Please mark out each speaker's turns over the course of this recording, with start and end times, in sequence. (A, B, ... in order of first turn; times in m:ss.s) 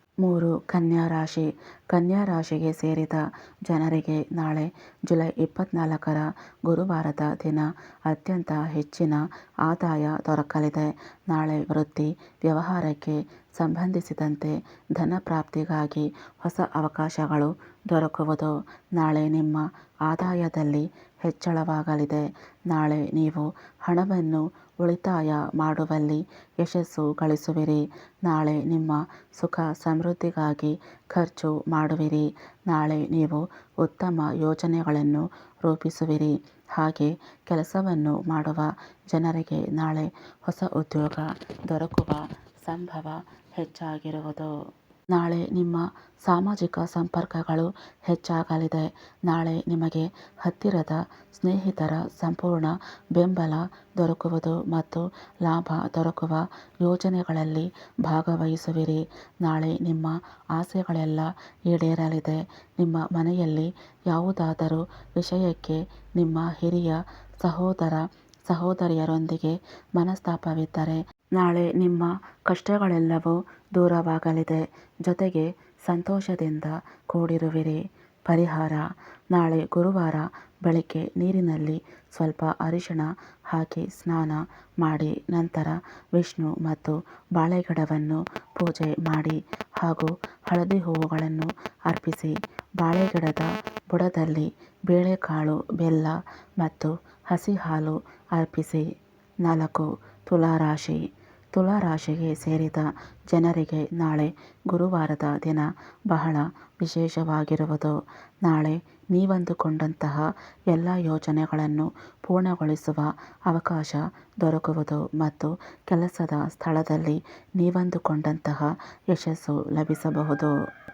0:00.2-0:44.5 A
0:45.1-1:38.9 A
1:39.4-2:00.5 A